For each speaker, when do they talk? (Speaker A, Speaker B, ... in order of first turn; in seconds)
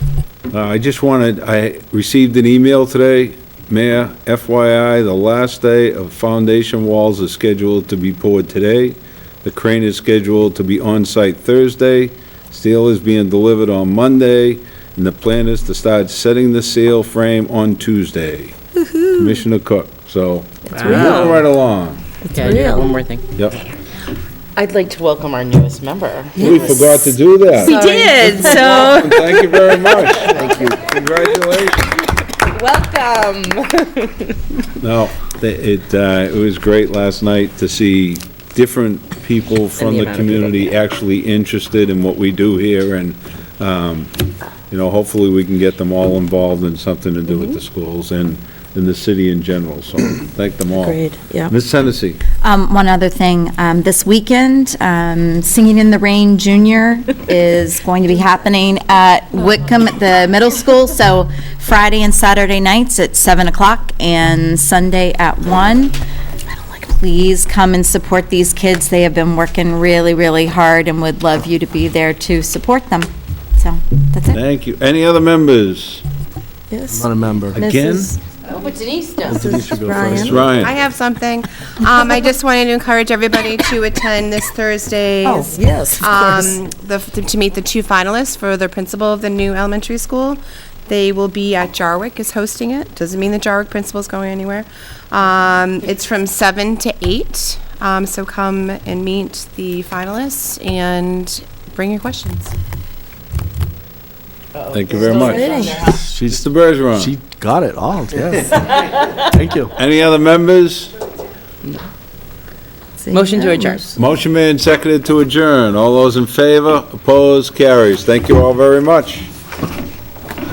Speaker A: 0.5-18.5, 19.1-22.0, 26.4-31.9, 34.8-44.1, 44.7-52.2, 74.3-76.0, 77.5-78.2, 80.0-80.8, 104.7-107.1, 109.8-110.9, 113.9-119.2
Speaker B: 20.7-21.3, 22.2-23.0, 50.8-51.5, 76.7-78.1, 79.3-80.4, 85.2-86.6, 105.1-105.8, 113.1-113.8
Speaker C: 20.7-21.4, 22.3-23.2, 24.6-27.0, 27.5-29.1, 30.1-30.4, 32.4-34.3, 39.8-40.7, 78.4-79.5, 104.5-106.0, 113.1-113.8
Speaker D: 27.6-29.2, 52.4-65.9, 66.5-74.4
Speaker E: 76.9-77.6, 79.2-80.6, 105.8-106.4, 106.9-108.6, 109.3-109.7
Speaker F: 80.3-102.5